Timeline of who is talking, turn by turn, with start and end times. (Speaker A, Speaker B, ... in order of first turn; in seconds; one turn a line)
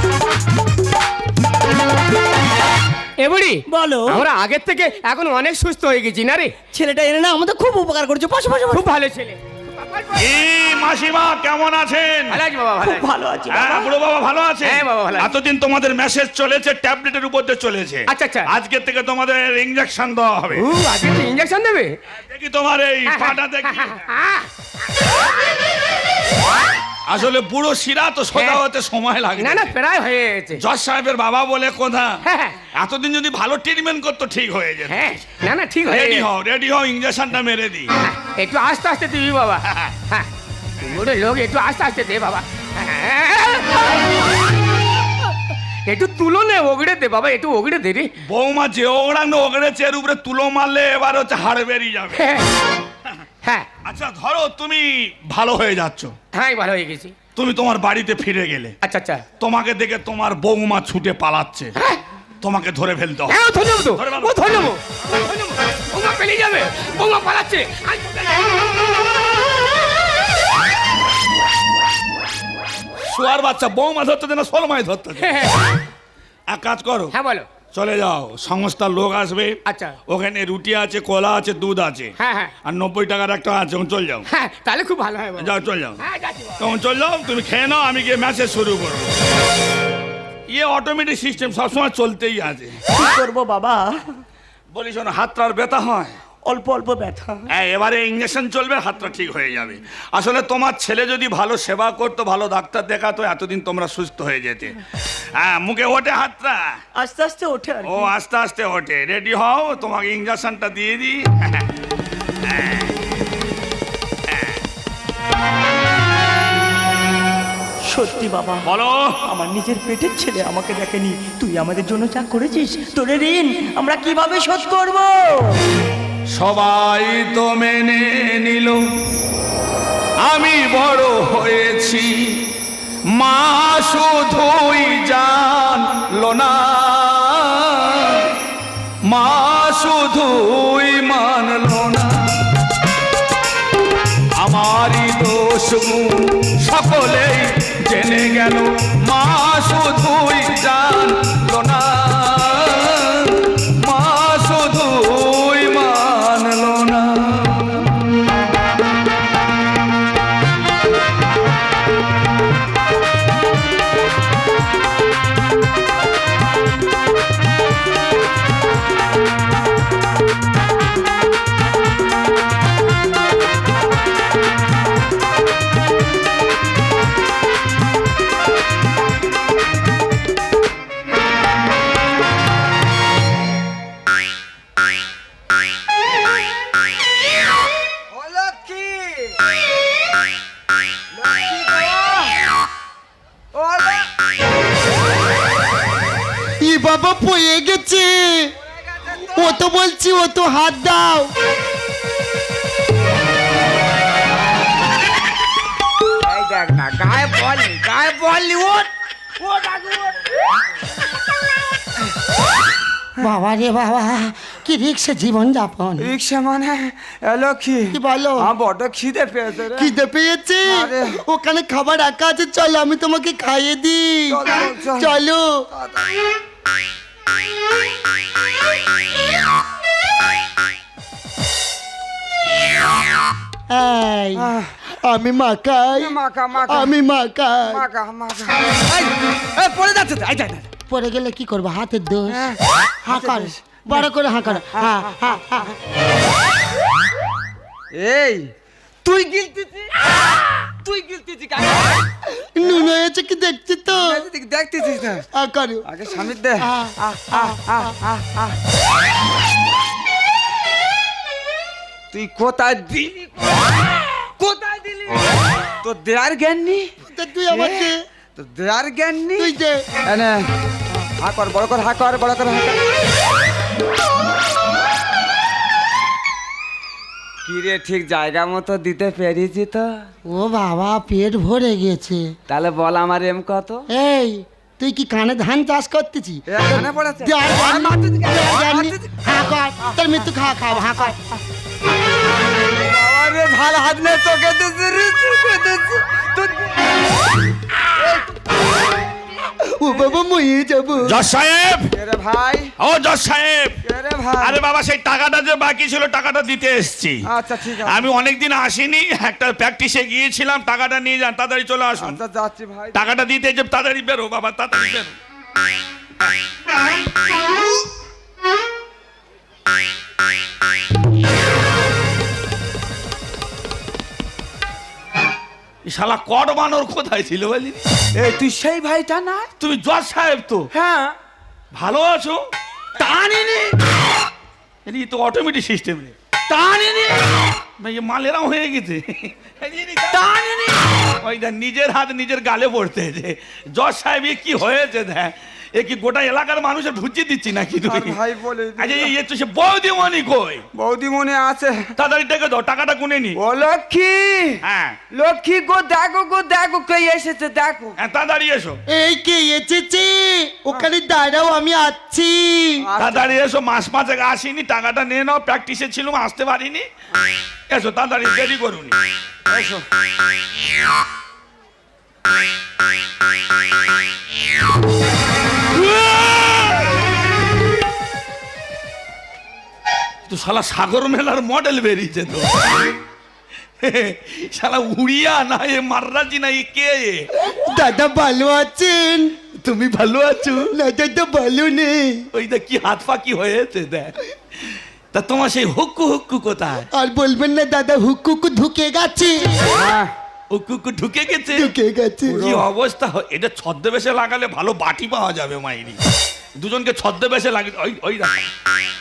Speaker A: 3.2-6.5
Speaker B: 3.7-4.3
Speaker B: 6.7-8.8
Speaker A: 8.7-10.4
Speaker C: 10.2-12.4
Speaker A: 12.3-13.1
Speaker B: 12.8-13.9
Speaker C: 13.5-20.6
Speaker A: 14.6-15.3
Speaker A: 18.1-18.5
Speaker A: 20.6-22.0
Speaker C: 22.3-24.0
Speaker A: 23.1-24.5
Speaker C: 27.1-29.8
Speaker A: 28.3-28.6
Speaker A: 29.4-30.6
Speaker C: 30.6-32.2
Speaker A: 32.2-32.6
Speaker C: 32.7-35.1
Speaker A: 34.9-36.3
Speaker C: 35.9-37.9
Speaker A: 38.0-40.3
Speaker A: 40.8-44.0
Speaker A: 45.9-48.1
Speaker C: 48.2-52.3
Speaker A: 52.1-52.5
Speaker C: 53.8-56.1
Speaker A: 56.3-57.2
Speaker C: 57.4-58.8
Speaker A: 58.8-59.2
Speaker C: 59.4-61.8
Speaker A: 61.8-62.0
Speaker C: 62.4-63.4
Speaker A: 63.3-68.6
Speaker C: 63.9-64.7
Speaker C: 73.0-75.4
Speaker A: 75.2-75.8
Speaker C: 76.5-77.1
Speaker A: 77.1-77.5
Speaker C: 77.7-84.2
Speaker A: 79.7-80.0
Speaker A: 82.2-82.5
Speaker A: 84.3-86.8
Speaker C: 85.4-86.0
Speaker C: 86.6-89.2
Speaker C: 90.5-92.8
Speaker B: 92.9-94.1
Speaker C: 94.7-96.2
Speaker B: 96.4-97.5
Speaker C: 97.5-104.8
Speaker C: 105.4-106.8
Speaker B: 106.9-108.1
Speaker C: 107.8-111.7
Speaker C: 112.4-113.0
Speaker C: 114.3-114.6
Speaker B: 117.8-118.7
Speaker C: 118.6-119.2
Speaker B: 119.2-125.6
Speaker C: 126.3-128.8
Speaker C: 130.2-132.5
Speaker C: 133.2-138.3
Speaker C: 139.1-142.3
Speaker C: 144.4-158.0
Speaker D: 188.1-189.4
Speaker D: 191.1-192.3
Speaker D: 193.5-194.1
Speaker E: 196.6-198.5
Speaker D: 198.8-199.6
Speaker E: 199.3-201.3
Speaker D: 206.2-210.3
Speaker E: 213.2-216.1
Speaker D: 216.0-219.9
Speaker E: 217.9-218.5
Speaker E: 219.8-225.5
Speaker D: 220.7-221.2
Speaker D: 224.3-225.2
Speaker D: 225.7-226.1
Speaker E: 233.7-236.2
Speaker D: 234.4-234.7
Speaker D: 236.0-236.9
Speaker E: 236.7-237.8
Speaker D: 237.7-240.7
Speaker E: 240.9-242.5
Speaker D: 242.3-245.7
Speaker E: 243.0-245.7
Speaker D: 247.9-248.5
Speaker D: 249.0-252.1
Speaker E: 252.3-254.2
Speaker D: 253.9-255.2
Speaker E: 255.3-255.9
Speaker D: 255.9-258.6
Speaker E: 256.6-257.9
Speaker D: 262.1-265.3
Speaker D: 265.8-266.9
Speaker E: 267.1-268.0
Speaker D: 267.5-269.5
Speaker E: 269.4-269.8
Speaker D: 270.1-270.5
Speaker D: 271.2-272.8
Speaker D: 277.4-280.1
Speaker E: 280.2-282.3
Speaker D: 282.5-283.9
Speaker E: 283.9-291.3
Speaker D: 286.5-289.1
Speaker D: 292.7-296.9
Speaker D: 298.0-298.3
Speaker E: 299.8-301.2
Speaker C: 301.0-301.9
Speaker D: 301.9-302.7
Speaker C: 302.8-303.8
Speaker D: 303.8-304.6
Speaker C: 304.4-307.2
Speaker D: 307.3-308.1
Speaker C: 307.8-312.2
Speaker D: 312.0-313.0
Speaker C: 312.9-315.1
Speaker C: 325.9-327.8
Speaker D: 328.1-329.5
Speaker C: 329.6-330.7
Speaker D: 330.7-331.1
Speaker C: 331.7-332.4
Speaker D: 332.9-333.7
Speaker C: 334.9-336.1
Speaker D: 336.5-337.4
Speaker C: 337.8-340.2
Speaker D: 340.1-340.9
Speaker C: 341.2-348.2
Speaker D: 347.9-349.1
Speaker C: 348.8-350.6
Speaker D: 350.8-351.9
Speaker C: 352.0-353.4
Speaker D: 353.4-358.0
Speaker C: 354.6-355.0
Speaker C: 358.0-358.8
Speaker E: 358.9-362.8
Speaker D: 362.8-363.3
Speaker C: 363.0-366.9
Speaker C: 367.7-368.9
Speaker D: 369.5-369.9
Speaker C: 375.7-376.9
Speaker C: 380.3-382.7
Speaker C: 383.8-387.3
Speaker E: 387.4-389.3
Speaker C: 389.6-390.7
Speaker E: 390.7-392.2
Speaker C: 392.3-396.9
Speaker E: 396.9-399.6
Speaker D: 399.7-400.1
Speaker C: 400.5-401.7
Speaker E: 401.6-402.5
Speaker C: 402.3-406.0
Speaker D: 402.4-402.6
Speaker C: 406.6-408.5